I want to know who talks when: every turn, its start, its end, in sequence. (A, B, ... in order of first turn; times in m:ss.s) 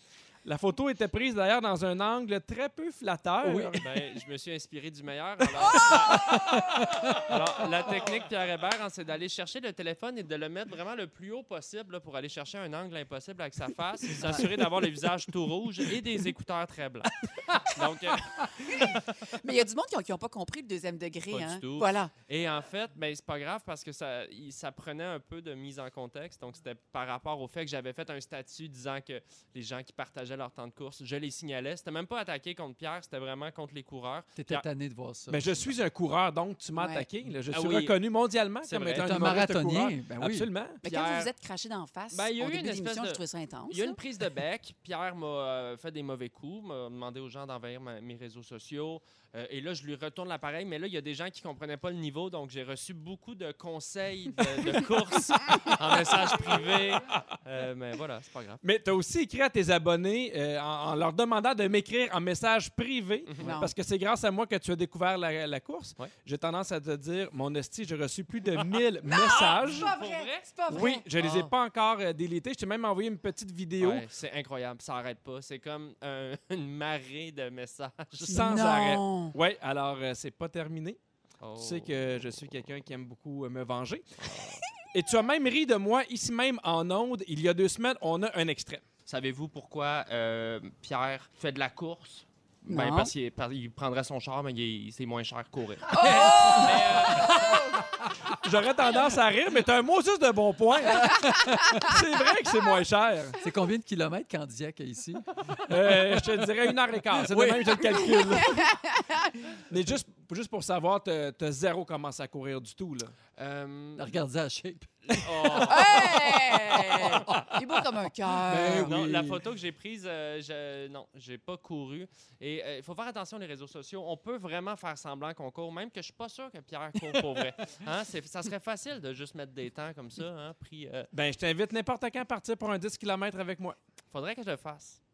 0:00.4-0:03.8 A
0:03.4-0:03.8 B
0:03.8-0:19.0 C
0:06.3-0:07.1 B
0:18.7-0:22.1 D
0:21.3-0:34.6 C
0:34.4-0:35.7 B
0:35.3-0:40.8 A
0:36.8-0:37.1 D
0:37.5-0:38.0 C
0:38.6-0:39.4 C
0:38.9-0:40.5 B
0:40.8-0:41.3 C
0:40.8-0:44.0 D
0:42.1-0:58.6 C
0:58.6-1:09.9 A
1:03.4-1:03.7 D
1:08.5-1:11.5 C
1:09.1-1:11.0 D
1:10.7-1:14.0 A
1:13.8-1:18.6 C
1:18.2-1:21.0 A
1:18.2-1:19.3 D
1:21.4-1:22.1 C
1:21.6-1:24.3 A
1:24.2-1:24.6 C
1:24.9-1:28.8 A
1:29.0-1:37.6 C
1:32.7-1:33.1 D
1:35.9-1:37.8 D
1:38.3-1:43.3 A
1:41.1-1:41.8 B
1:41.5-1:41.7 D
1:43.4-1:45.3 B
1:45.7-1:48.8 A
1:45.8-1:46.0 B
1:47.1-1:48.2 B
1:48.0-1:49.3 D
1:49.7-1:53.1 A
1:53.4-1:54.1 C
1:54.0-1:59.4 B
1:55.1-1:56.3 C
1:55.5-1:59.0 D
1:56.9-1:57.3 C
1:58.8-2:11.1 C
2:11.1-2:13.8 A
2:14.1-2:15.0 C